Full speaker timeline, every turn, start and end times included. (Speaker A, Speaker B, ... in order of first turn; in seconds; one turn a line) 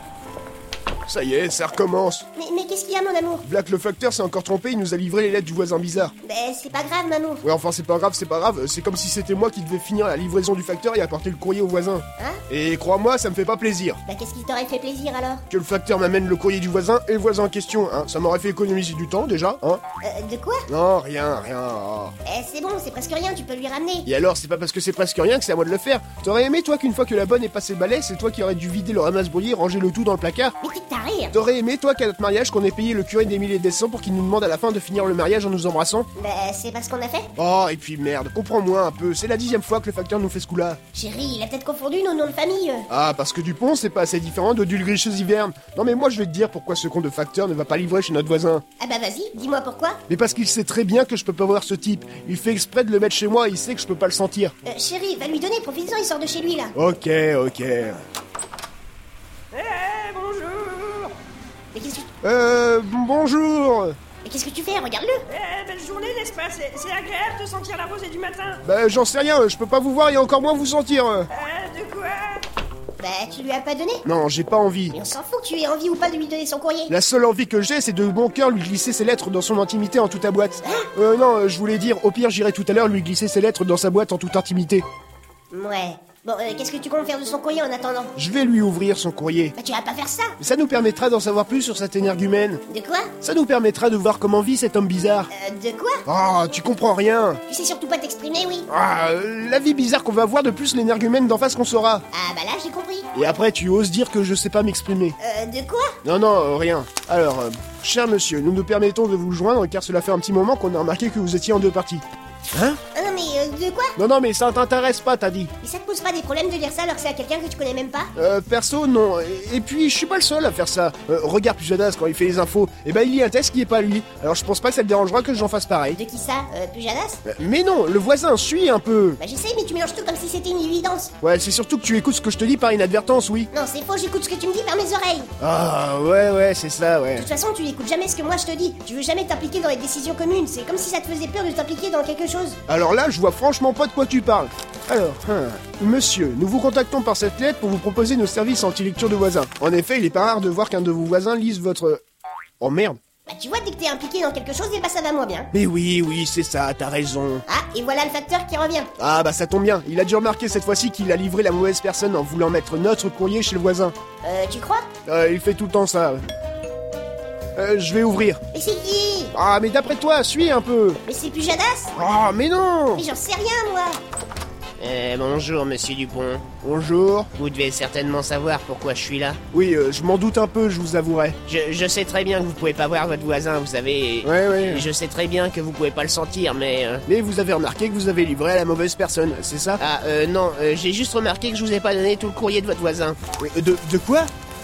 Speaker A: 1.1-2.2
Speaker B: 2.4-3.4
Speaker A: 3.4-6.1
Speaker B: 6.2-7.4
Speaker A: 7.4-14.0
Speaker B: 14.1-15.4
Speaker A: 15.5-19.8
Speaker B: 20.0-20.7
Speaker A: 20.7-22.1
Speaker B: 22.2-24.1
Speaker A: 24.1-30.5
Speaker B: 30.6-31.3
Speaker A: 31.3-36.1
Speaker B: 36.2-37.3
Speaker A: 37.4-40.8
Speaker B: 40.9-42.9
Speaker A: 42.9-48.6
Speaker B: 48.8-50.0
Speaker A: 50.1-54.5
Speaker B: 54.6-56.7
Speaker A: 56.7-58.0
Speaker C: 59.5-61.1
Speaker B: 61.7-62.1
Speaker A: 62.2-64.0
Speaker B: 64.2-65.7
Speaker C: 65.4-68.6
Speaker B: 67.1-68.1
Speaker A: 68.6-71.3
Speaker B: 71.3-72.4
Speaker B: 73.0-74.0
Speaker A: 74.0-75.0
Speaker B: 74.9-76.9
Speaker A: 76.9-84.8
Speaker B: 80.6-80.9
Speaker B: 85.5-88.1
Speaker A: 88.2-89.5
Speaker B: 89.6-90.4
Speaker A: 90.4-92.6
Speaker B: 92.7-93.1
Speaker A: 93.2-95.3
Speaker B: 95.3-96.0
Speaker A: 96.0-97.4
Speaker B: 97.5-98.7
Speaker A: 98.7-102.0
Speaker B: 102.1-103.1
Speaker A: 103.1-105.2
Speaker B: 105.2-106.0
Speaker A: 106.0-112.8
Speaker B: 112.9-114.0
Speaker A: 114.0-115.5
Speaker B: 115.6-118.1
Speaker A: 118.2-126.0
Speaker B: 125.9-127.2
Speaker A: 127.2-129.2
Speaker B: 129.2-131.1
Speaker A: 131.2-133.5
Speaker B: 133.5-135.3
Speaker A: 135.4-137.3
Speaker B: 137.1-142.6
Speaker A: 142.7-152.0
Speaker A: 152.6-153.0
Speaker B: 153.3-155.5
Speaker A: 155.5-157.4
Speaker B: 157.5-158.9
Speaker A: 159.0-163.9
Speaker B: 164.2-164.9
Speaker A: 165.1-166.2
Speaker A: 167.6-168.4
Speaker B: 168.5-169.3
Speaker A: 169.3-171.0
Speaker B: 171.1-171.9
Speaker A: 171.9-173.1
Speaker B: 172.9-174.0
Speaker D: 174.8-176.4
Speaker A: 176.6-177.3
Speaker D: 177.4-179.4
Speaker A: 179.5-181.4
Speaker D: 181.4-187.0
Speaker A: 184.2-184.9
Speaker A: 187.1-189.8
Speaker D: 189.8-193.2
Speaker A: 193.4-194.3